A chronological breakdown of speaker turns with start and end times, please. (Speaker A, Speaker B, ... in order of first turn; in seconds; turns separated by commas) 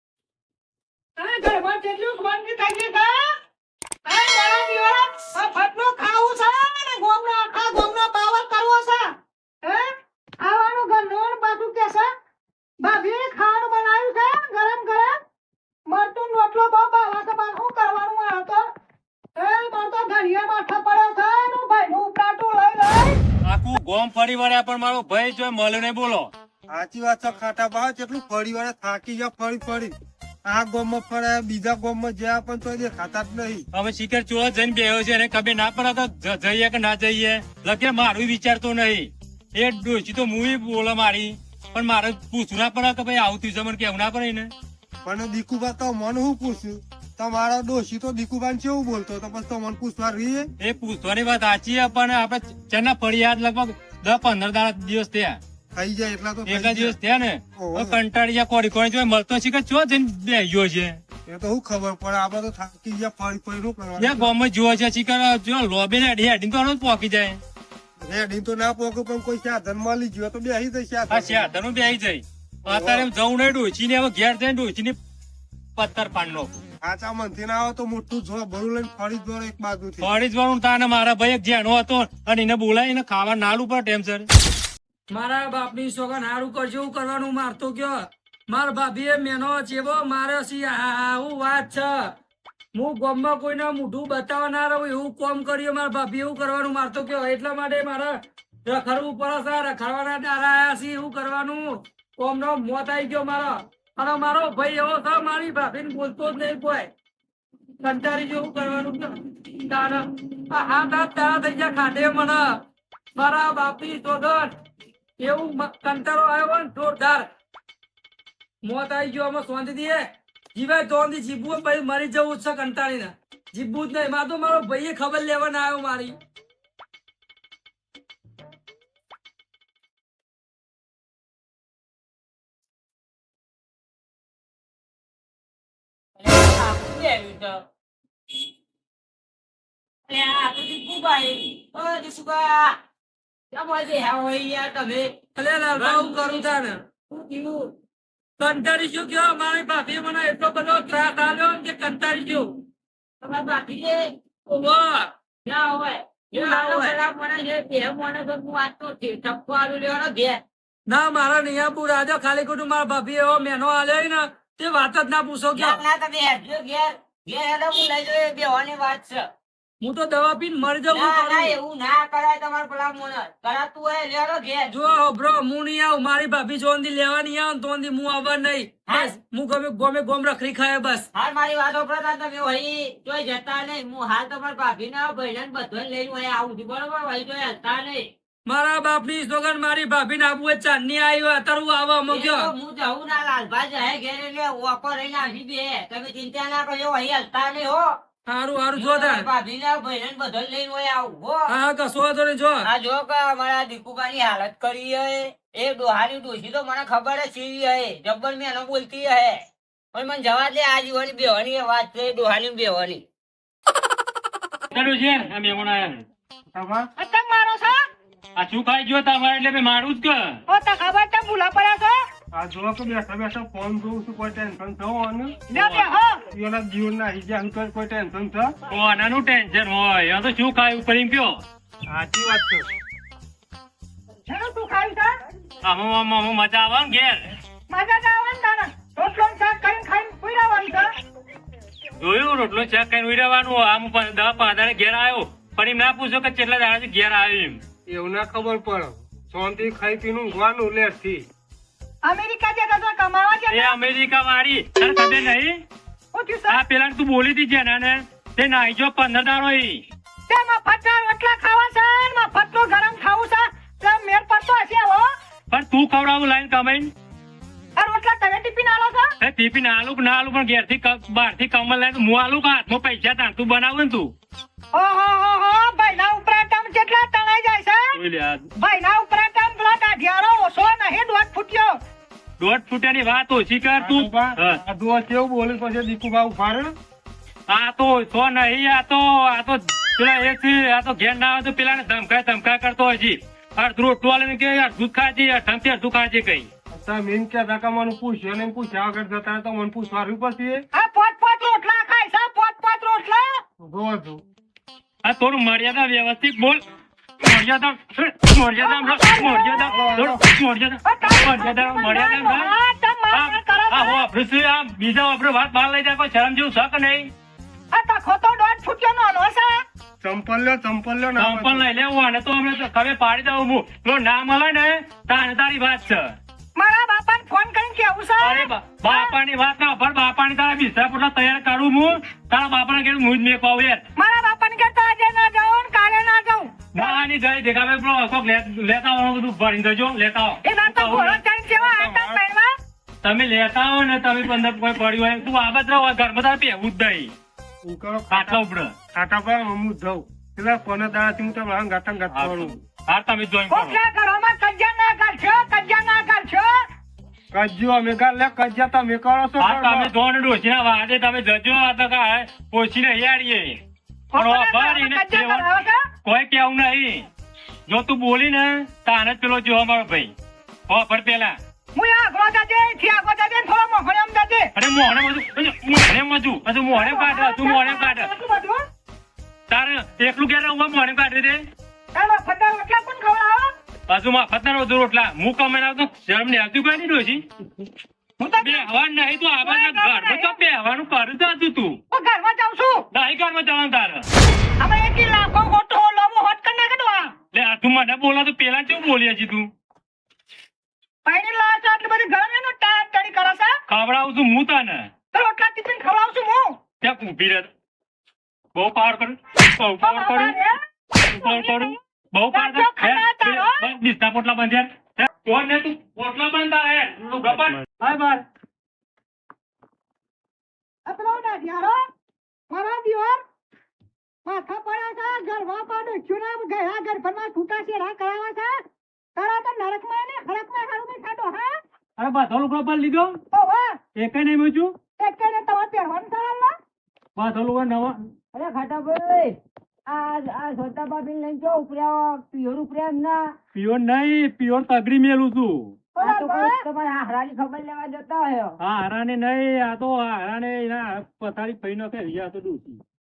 Speaker A: 1.2-3.2, Speaker A: 4.1-9.1, Speaker A: 9.6-9.9, Speaker A: 10.4-12.1, Speaker A: 12.8-15.2, Speaker A: 15.9-18.6, Speaker A: 19.4-23.2, Speaker B: 23.4-26.3, Speaker C: 26.7-33.6, Speaker B: 33.7-44.5, Speaker C: 45.0-50.5, Speaker B: 50.6-55.4, Speaker C: 55.7-57.0, Speaker B: 56.5-61.0, Speaker C: 57.6-58.0, Speaker C: 61.3-64.3, Speaker B: 64.0-67.4, Speaker C: 68.0-71.5, Speaker B: 71.1-75.0, Speaker C: 72.7-73.1, Speaker B: 75.8-76.5, Speaker C: 76.8-80.1, Speaker B: 80.0-84.3, Speaker D: 85.1-92.2, Speaker D: 92.7-106.9, Speaker D: 107.8-112.6, Speaker D: 113.2-114.5, Speaker D: 115.2-117.3, Speaker D: 118.6-126.2, Speaker E: 136.2-137.6, Speaker E: 140.1-142.8, Speaker E: 143.5-145.2, Speaker D: 145.4-146.8, Speaker E: 145.7-146.5, Speaker E: 147.1-147.7, Speaker D: 148.4-152.6, Speaker E: 153.2-154.1, Speaker D: 154.5-155.1, Speaker E: 155.4-160.4, Speaker D: 156.4-157.0, Speaker D: 160.9-165.8, Speaker E: 165.5-169.3, Speaker D: 169.8-171.6, Speaker E: 170.9-174.8, Speaker D: 174.7-181.1, Speaker E: 178.9-179.2, Speaker E: 181.1-188.1, Speaker D: 188.5-192.5, Speaker E: 192.1-198.0, Speaker D: 198.3-199.3, Speaker E: 198.8-201.5, Speaker D: 201.5-202.7, Speaker E: 202.6-209.4, Speaker E: 209.9-213.0, Speaker B: 214.7-216.1, Speaker C: 216.5-216.9, Speaker A: 217.0-217.8, Speaker B: 218.4-220.4, Speaker A: 220.5-222.0, Speaker C: 222.3-225.5, Speaker A: 225.5-226.2, Speaker C: 226.3-228.6, Speaker B: 228.7-231.4, Speaker C: 231.9-232.7, Speaker A: 234.3-235.1, Speaker B: 235.6-237.3, Speaker A: 237.7-240.9, Speaker B: 242.0-247.6, Speaker C: 247.9-251.2, Speaker A: 252.0-253.8, Speaker B: 253.5-255.6, Speaker A: 256.1-256.6, Speaker B: 256.5-259.8, Speaker A: 260.3-265.1, Speaker B: 265.5-266.9, Speaker A: 267.8-269.1, Speaker B: 269.2-274.1, Speaker A: 274.7-277.9, Speaker B: 278.0-278.5, Speaker A: 278.6-281.8, Speaker B: 282.4-284.6, Speaker C: 283.8-286.8, Speaker B: 287.5-296.5, Speaker C: 296.7-300.6, Speaker A: 300.7-303.4, Speaker C: 303.6-304.2, Speaker B: 305.0-306.6, Speaker B: 307.2-312.5, Speaker A: 308.6-309.8, Speaker C: 309.6-310.2, Speaker A: 310.9-314.0, Speaker B: 313.1-317.1, Speaker A: 317.7-319.6, Speaker C: 320.0-321.7, Speaker B: 321.2-326.2, Speaker A: 326.6-329.1, Speaker B: 328.2-333.8, Speaker A: 334.0-337.0, Speaker B: 336.7-341.2, Speaker A: 340.4-342.5, Speaker C: 341.5-342.2, Speaker B: 343.0-347.1, Speaker C: 347.6-348.4, Speaker B: 348.1-348.7, Speaker C: 348.9-352.6, Speaker B: 352.1-353.8, Speaker A: 353.5-356.6, Speaker C: 357.3-359.9, Speaker B: 359.4-363.6, Speaker A: 364.1-365.9, Speaker B: 364.2-365.5, Speaker B: 366.1-367.1, Speaker B: 367.7-370.1, Speaker B: 370.7-371.4, Speaker A: 371.8-374.5, Speaker B: 374.6-378.1, Speaker A: 376.7-378.6, Speaker B: 379.5-381.4, Speaker A: 381.9-383.5, Speaker B: 383.9-387.2, Speaker A: 388.2-388.7, Speaker B: 388.4-391.8, Speaker A: 389.4-390.4, Speaker A: 391.9-392.9, Speaker B: 392.9-394.1, Speaker A: 394.6-397.2, Speaker B: 397.3-399.5, Speaker A: 401.1-403.5, Speaker B: 403.7-404.9, Speaker A: 405.1-406.6, Speaker B: 406.8-407.5, Speaker B: 408.6-410.4, Speaker A: 409.8-410.5, Speaker A: 411.1-411.8, Speaker B: 411.1-418.2, Speaker A: 412.3-413.7, Speaker A: 420.9-421.8, Speaker A: 422.5-423.2, Speaker A: 424.2-428.6, Speaker A: 429.1-431.6, Speaker B: 432.0-433.2, Speaker A: 433.3-433.8, Speaker B: 434.0-434.7, Speaker A: 435.0-436.5, Speaker B: 437.2-438.0, Speaker E: 438.3-439.3, Speaker E: 439.9-443.3, Speaker B: 443.5-445.8, Speaker A: 445.9-446.6, Speaker E: 446.0-448.6, Speaker B: 448.6-452.8